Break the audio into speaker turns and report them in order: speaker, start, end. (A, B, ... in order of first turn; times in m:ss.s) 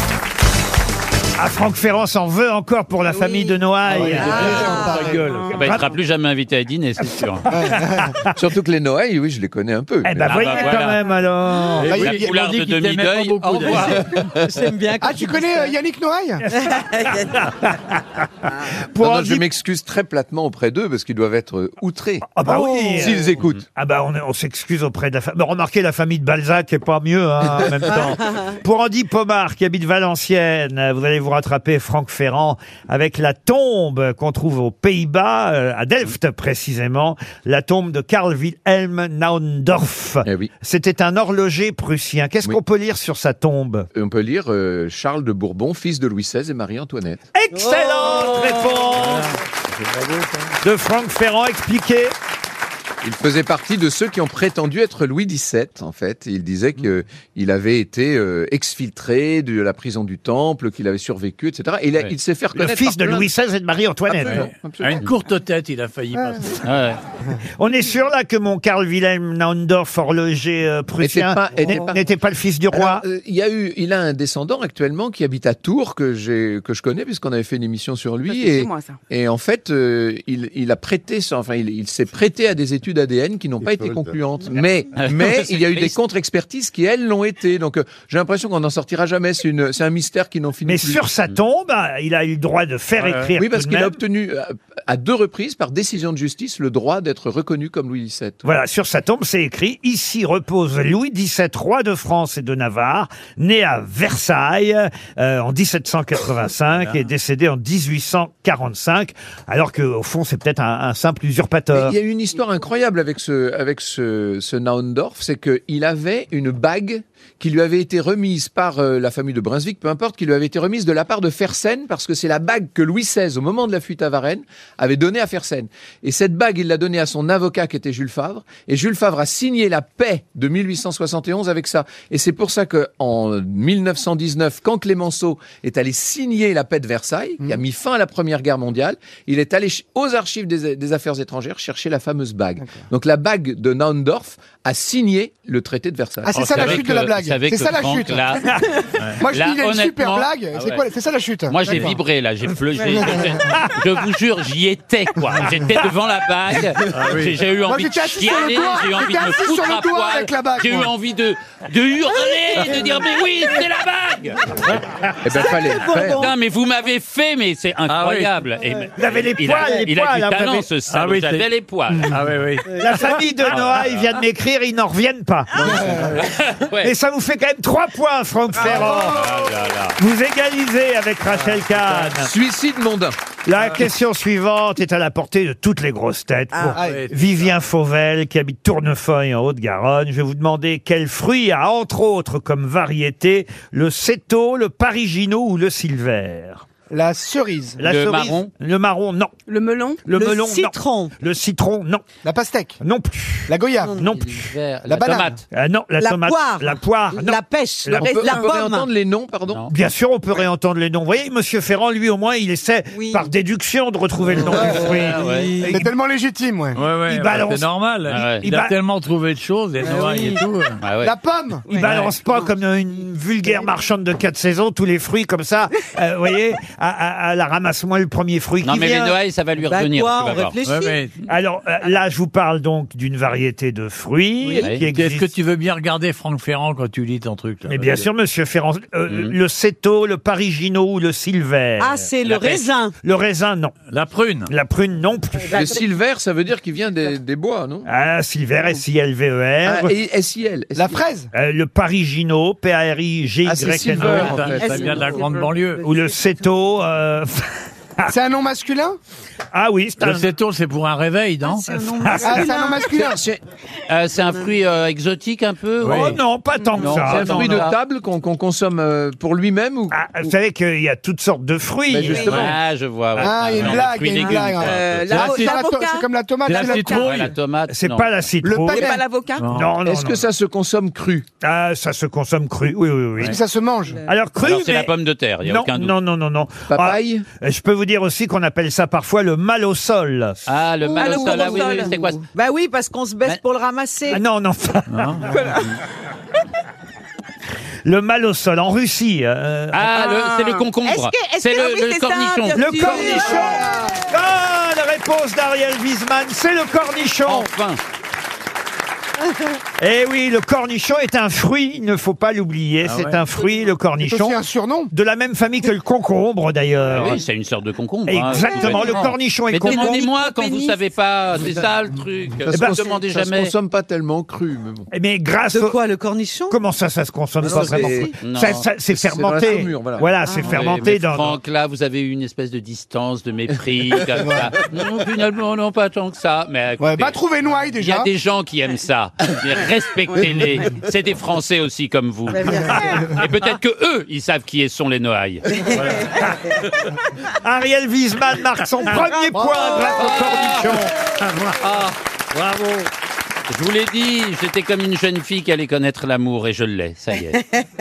0:01.4-0:05.0 A
0:03.1-0:03.6 B
0:03.9-0:05.5 C
0:03.9-0:05.3 D
0:04.2-0:05.0 E
0:05.2-0:05.6 B
0:05.5-0:07.4 F
0:05.5-0:05.9 A
0:07.5-0:08.2 D
0:07.5-0:08.2 A
0:08.4-0:10.5 G
0:10.0-0:12.0 A
0:10.2-0:11.0 F
0:11.8-0:14.3 C
0:11.8-0:12.3 D
0:12.0-0:14.4 F
0:14.4-0:15.7 E
0:15.0-0:16.4 D
0:16.5-0:17.4 E
0:16.7-0:19.4 A
0:19.0-0:22.4 G
0:22.3-0:43.9 A
0:22.5-0:23.1 E
0:23.0-0:23.6 G
0:28.0-0:28.5 E
0:40.2-0:40.5 G
0:43.9-0:47.3 G
0:47.3-0:49.3 A
0:47.5-0:48.8 E
0:49.9-0:50.4 C
0:50.6-0:52.1 A
0:53.0-1:03.3 G
1:02.6-1:04.5 A
1:04.1-1:05.1 G
1:04.3-1:06.7 C
1:06.6-1:07.0 F
1:07.6-1:13.0 A
1:11.0-1:12.0 G
1:12.7-1:31.0 G
1:18.3-1:19.0 B
1:24.9-1:26.0 F
1:30.6-1:34.0 A
1:33.0-1:33.4 C
1:33.4-1:38.5 G
1:38.4-1:52.0 A
1:51.7-2:26.8 G
2:22.6-2:22.9 D
2:26.2-2:28.5 D
2:26.4-2:28.6 F
2:26.4-2:26.7 C
2:29.2-2:32.0 D
2:29.3-2:30.8 F
2:31.5-2:44.8 F
2:32.9-2:33.5 D
2:33.5-2:33.8 A
2:36.9-2:37.4 C
2:37.7-2:40.9 D
2:45.2-2:46.3 G
2:45.4-2:46.3 E
2:46.0-2:52.2 F
2:47.9-2:48.3 C
2:49.0-2:50.7 A
2:50.9-2:51.4 C
2:52.0-2:53.0 C
2:52.8-2:56.1 A
2:53.5-2:54.0 F
2:55.6-2:56.4 C
2:56.2-2:56.9 F
2:56.8-2:59.4 A
2:58.6-2:59.4 D
2:58.7-3:00.0 F
2:58.7-2:59.1 E
3:00.0-3:02.3 A
3:01.3-3:02.1 C
3:02.1-3:03.2 G
3:03.5-3:16.7 A
3:06.8-3:07.6 C
3:16.9-3:17.8 D
3:17.8-3:19.3 A
3:17.8-3:18.5 F
3:19.5-3:20.0 B
3:20.0-3:22.0 A
3:20.1-3:21.1 E
3:22.2-3:22.8 D
3:22.8-3:24.4 A
3:23.5-3:24.0 D
3:24.1-3:25.4 F
3:24.9-3:25.4 D
3:25.5-3:28.2 A
3:26.0-3:28.9 E
3:27.9-3:29.7 G
3:28.0-3:28.5 B
3:29.7-3:35.8 A
3:32.9-3:33.3 E
3:34.4-3:35.8 E
3:34.6-3:35.5 F
3:35.7-3:36.8 D
3:36.8-3:40.8 C
3:37.1-3:37.7 A
3:38.1-3:38.4 F
3:38.4-3:38.8 A
3:39.8-3:40.4 E
3:40.8-3:41.1 F
3:41.0-3:41.7 D
3:41.7-3:42.5 E
3:41.7-3:49.2 A
3:41.8-3:42.1 C
3:48.6-3:50.6 F
3:49.7-3:51.0 E
3:50.6-3:51.2 C
3:51.3-3:55.3 A
3:54.8-3:58.1 C
3:57.7-4:03.7 A
3:59.1-3:59.4 F
4:01.8-4:02.9 E
4:03.9-4:04.5 C
4:04.5-4:05.8 A
4:05.5-4:07.9 G
4:07.8-4:09.9 A
4:09.6-4:11.0 G
4:10.8-4:11.3 D
4:11.3-4:14.5 A
4:13.4-4:15.2 G
4:14.0-4:15.8 C
4:14.6-4:15.6 E
4:15.8-4:18.1 A
4:18.1-4:19.0 D
4:19.5-4:20.3 A
4:20.0-4:21.7 C
4:21.4-4:22.9 E
4:22.0-4:22.6 A
4:22.2-4:23.2 D
4:22.8-4:23.4 G
4:23.9-4:26.2 F
4:25.8-4:26.2 C
4:25.9-4:27.7 A
4:26.7-4:27.8 F
4:26.9-4:30.0 G
4:29.9-4:32.4 A
4:31.9-4:32.6 G
4:32.3-4:35.3 F
4:33.2-4:37.1 D
4:34.6-4:36.1 B
4:35.1-4:35.5 C
4:36.5-4:37.4 C
4:36.6-4:37.0 B
4:37.0-4:38.1 F
4:37.7-4:38.9 A
4:38.4-4:39.0 D
4:38.6-4:39.5 B
4:39.4-4:39.8 C
4:39.5-4:40.2 A
4:39.8-4:41.3 G
4:41.4-4:43.4 A
4:43.2-4:44.0 D
4:44.1-4:44.9 A
4:44.4-4:45.9 F
4:45.4-4:50.4 A
4:46.7-4:47.2 G
4:50.5-4:52.3 F
4:50.8-4:52.0 B
4:51.0-4:54.2 E
4:54.1-4:55.5 A
4:54.9-4:55.3 C
4:57.8-5:00.1 A
4:59.7-5:03.1 F
4:59.9-5:03.5 B
5:02.6-5:07.5 A
5:02.9-5:04.0 D
5:07.3-5:07.8 F
5:09.8-5:17.2 A
5:12.8-5:13.2 C
5:14.0-5:14.9 D
5:16.9-5:23.5 F
5:18.1-5:20.0 A
5:19.7-5:20.7 B
5:22.5-5:24.9 G
5:22.5-5:22.8 A
5:24.9-5:25.8 A
5:25.5-5:26.6 E
5:26.5-5:31.4 A
5:27.4-5:28.1 G
5:27.5-5:28.1 E
5:28.2-5:28.7 F
5:28.9-5:30.1 G
5:30.4-5:37.2 F
5:34.1-5:34.5 D
5:36.8-5:38.1 D
5:37.8-5:45.6 F
5:42.3-5:43.2 E
5:45.8-5:46.0 C
5:47.4-5:51.0 A
5:48.9-5:50.1 E
5:49.4-5:49.8 D
5:49.8-5:50.8 F
5:51.6-5:52.8 F
5:53.5-5:57.4 F